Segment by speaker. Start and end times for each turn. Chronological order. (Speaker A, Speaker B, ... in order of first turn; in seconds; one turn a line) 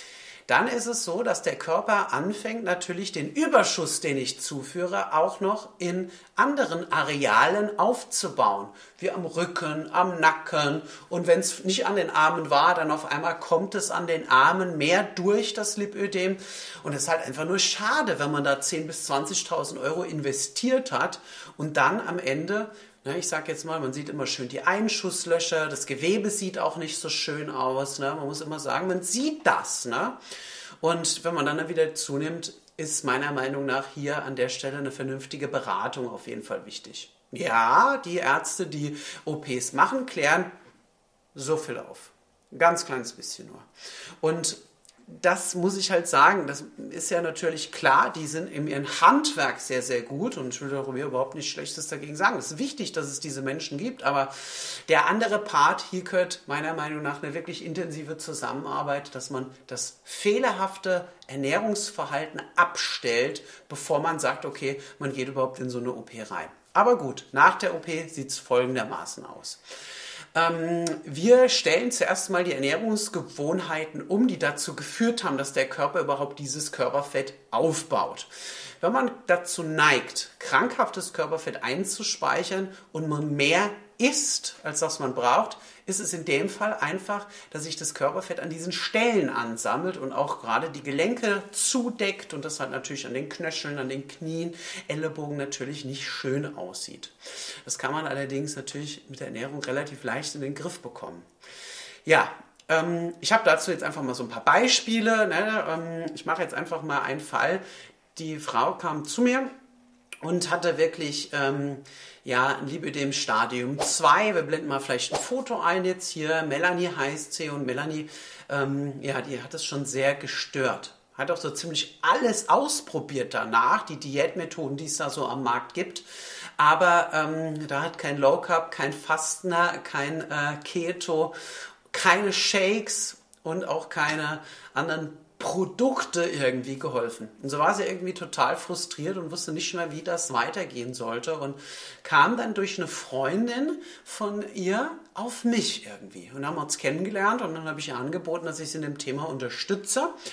Speaker A: 0.5-30.2
Speaker A: 30.8-40.5
Speaker A: 41.3-43.7
Speaker A: 44.2-69.6
Speaker A: 70.3-101.3
Speaker A: 102.0-107.6
Speaker A: 108.2-109.5
Speaker A: 110.2-126.0
Speaker A: 126.6-131.3
Speaker A: 131.9-150.1